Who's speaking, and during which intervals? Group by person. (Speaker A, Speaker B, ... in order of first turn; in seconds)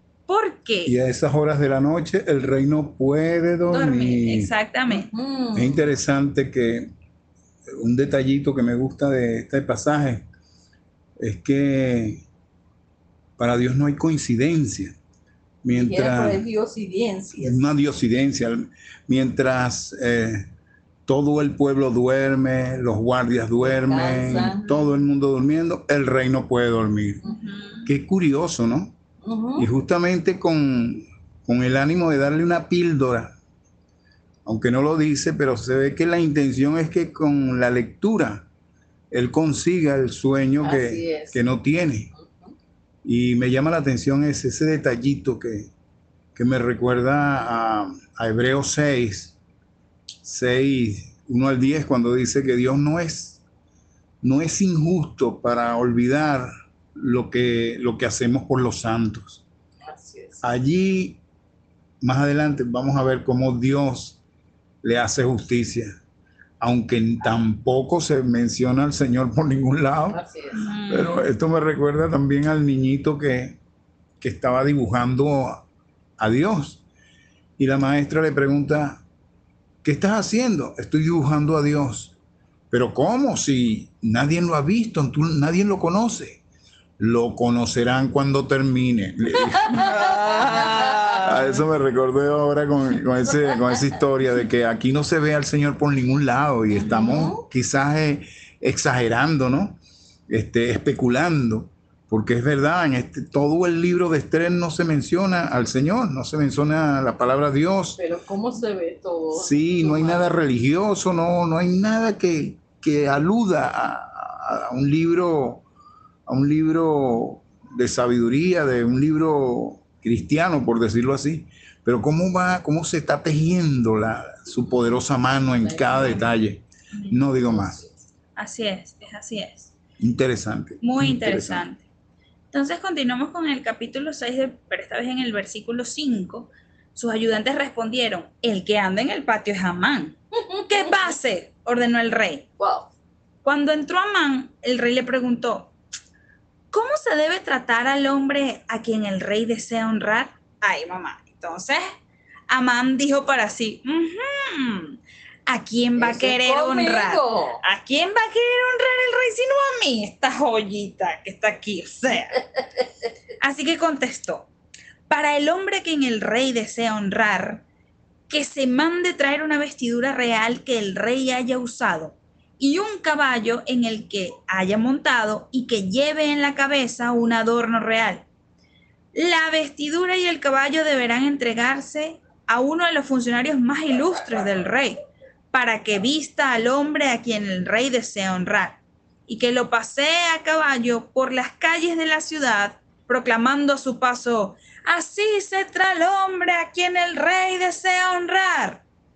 Speaker A: 0.3-0.9, 3.7-5.1, 24.3-24.9, 27.2-27.9, 70.5-71.3, 89.7-91.6, 96.8-97.2, 126.0-126.3, 126.9-127.2, 128.3-129.7, 130.8-131.8, 132.5-142.5, 143.4-145.7, 146.7-151.8, 152.5-162.5, 163.4-164.5, 165.1-167.6, 168.3-178.2, 179.1-185.0, 185.5-198.8
Speaker B: 0.8-4.5, 5.5-6.9, 7.7-10.3, 11.2-12.2, 13.4-14.9, 15.6-16.4, 17.4-20.5, 21.1-27.2, 27.9-28.9, 29.6-33.3, 34.4-38.5, 39.1-42.1, 43.0-45.7, 46.3-49.4, 50.2-53.4, 54.2-59.4, 60.4-61.2, 62.0-64.2, 64.8-65.9, 66.6-70.2, 70.9-73.6, 74.2-75.6, 76.2-76.8, 77.6-79.0, 79.8-82.1, 82.7-86.4, 87.0-99.8, 100.3-108.0, 109.3-115.6, 116.3-127.8, 130.0-131.6
Speaker C: 4.9-5.9, 15.7-17.6, 23.6-24.6, 29.2-29.7, 40.6-41.4, 42.1-42.5, 59.8-60.4, 70.1-70.7, 89.8-90.9, 96.8-97.4, 108.0-110.3, 125.6-126.2, 127.4-127.8, 140.5-140.9, 142.6-142.9, 156.0-157.6